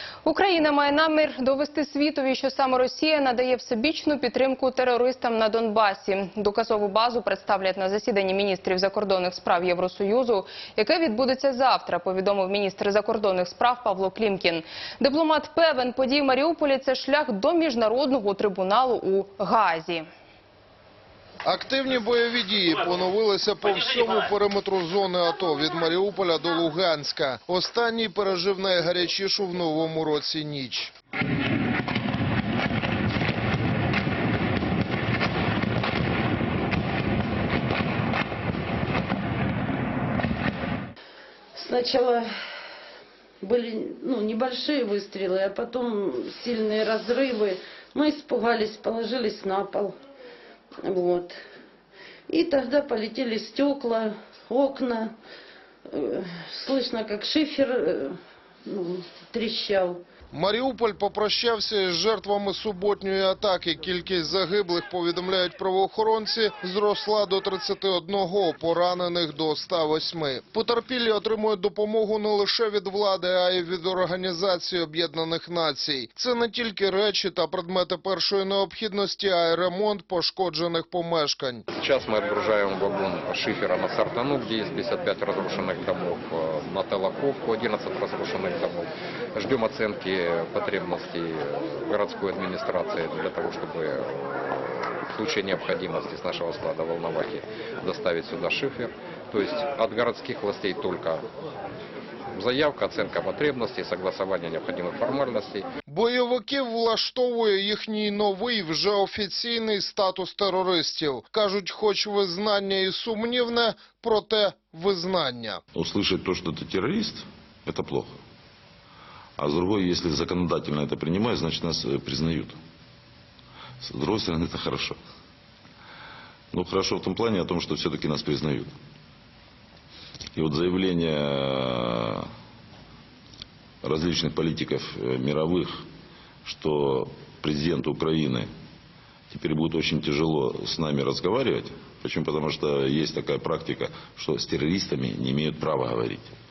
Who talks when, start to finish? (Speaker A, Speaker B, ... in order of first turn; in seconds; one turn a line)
Speaker A: 0.2-20.1
Speaker B: 21.4-30.9
Speaker C: 41.5-42.3
Speaker C: 43.4-49.9
Speaker C: 50.8-51.4
Speaker C: 52.3-55.1
Speaker C: 55.9-60.0
Speaker B: 60.3-81.6
Speaker D: 81.7-101.2
Speaker D: 102.3-105.7
Speaker B: 105.9-115.6
Speaker E: 115.7-118.2
Speaker E: 119.4-122.6
Speaker E: 123.8-125.0
Speaker E: 126.5-128.7
Speaker E: 130.3-132.3
Speaker E: 133.8-135.8
Speaker E: 136.4-138.5
Speaker E: 139.3-146.3